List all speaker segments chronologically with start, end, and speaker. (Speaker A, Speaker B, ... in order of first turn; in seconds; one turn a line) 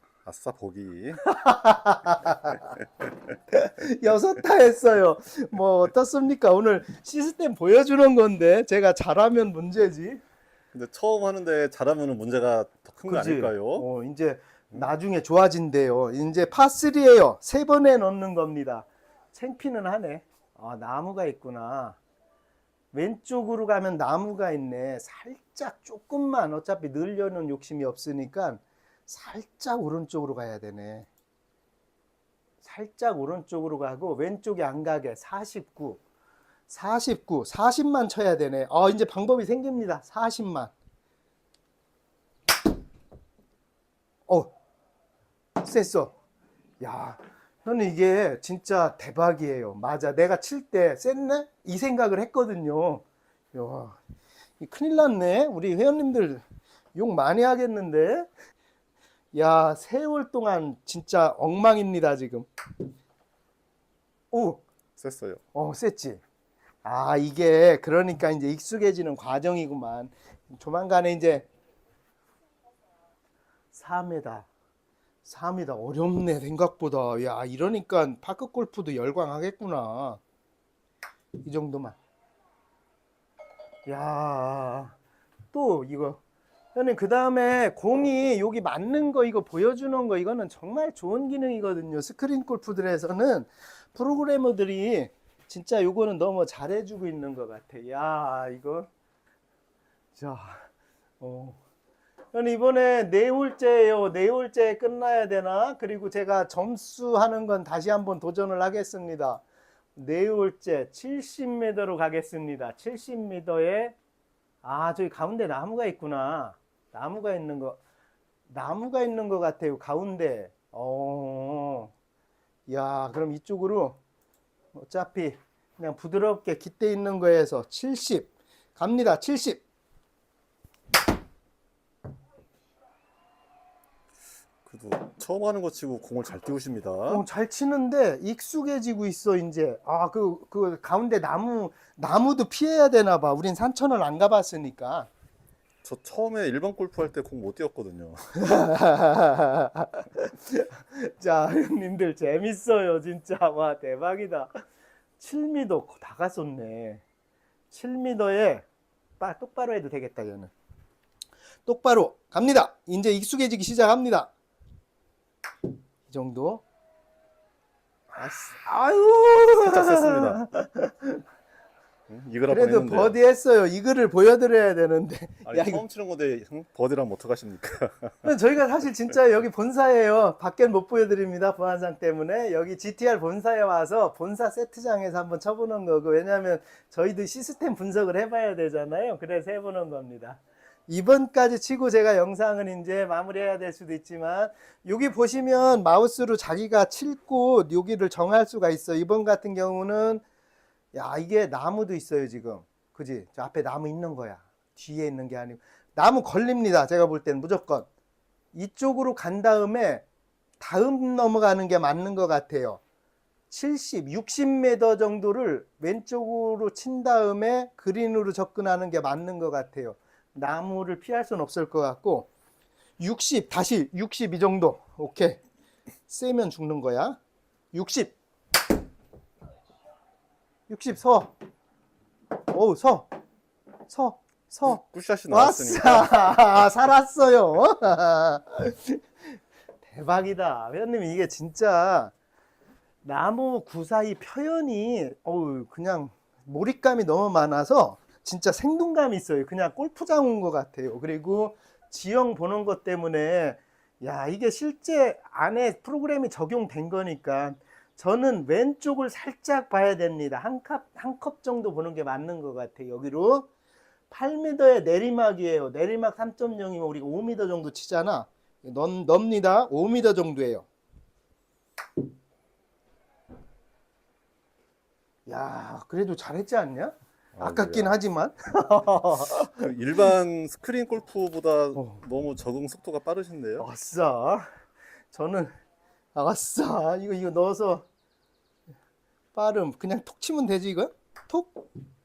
Speaker A: 0.2-1.2
Speaker B: 1.2-2.7
Speaker B: 3.5-10.2
Speaker A: 10.7-13.9
Speaker B: 13.1-22.0
Speaker B: 22.9-31.1
Speaker B: 32.6-36.0
Speaker B: 36.7-40.7
Speaker B: 45.6-46.1
Speaker B: 46.8-54.0
Speaker B: 54.6-56.4
Speaker B: 56.9-58.3
Speaker B: 59.3-62.5
Speaker B: 64.3-64.6
Speaker A: 65.0-65.4
Speaker B: 65.5-66.2
Speaker B: 66.8-71.5
Speaker B: 73.7-74.5
Speaker B: 75.2-80.2
Speaker B: 81.4-82.0
Speaker B: 83.9-85.0
Speaker B: 85.5-86.2
Speaker B: 86.8-98.9
Speaker B: 100.2-100.7
Speaker B: 101.2-101.6
Speaker B: 102.3-109.4
Speaker B: 110.0-113.9
Speaker B: 114.6-117.8
Speaker B: 118.5-121.9
Speaker B: 122.7-124.0
Speaker B: 124.7-129.6
Speaker A: 134.7-137.2
Speaker B: 137.1-145.1
Speaker A: 145.8-148.3
Speaker B: 148.4-154.6
Speaker B: 155.2-157.0
Speaker B: 157.7-158.6
Speaker B: 159.2-160.5
Speaker B: 161.7-164.3
Speaker B: 166.1-166.6
Speaker B: 168.1-171.2
Speaker A: 169.6-170.4
Speaker A: 172.1-173.1
Speaker B: 172.5-175.8
Speaker A: 175.4-178.2
Speaker B: 178.2-200.2
Speaker B: 200.9-207.9
Speaker B: 208.5-210.0
Speaker B: 210.6-212.8
Speaker B: 213.5-222.3
Speaker B: 223.0-225.4
Speaker B: 226.1-227.2
Speaker B: 227.7-228.2
Speaker B: 230.7-231.3
Speaker B: 232.5-233.1
Speaker B: 233.9-239.0
Speaker A: 234.7-236.8
Speaker B: 239.8-242.1
Speaker B: 243.0-263.5
Speaker B: 264.1-270.6
Speaker B: 275.3-279.7
Speaker A: 277.3-277.9
Speaker A: 279.5-283.6
Speaker B: 281.8-282.0
Speaker B: 283.6-284.4
Speaker B: 285.1-285.5
Speaker B: 286.1-287.9
Speaker B: 289.3-291.6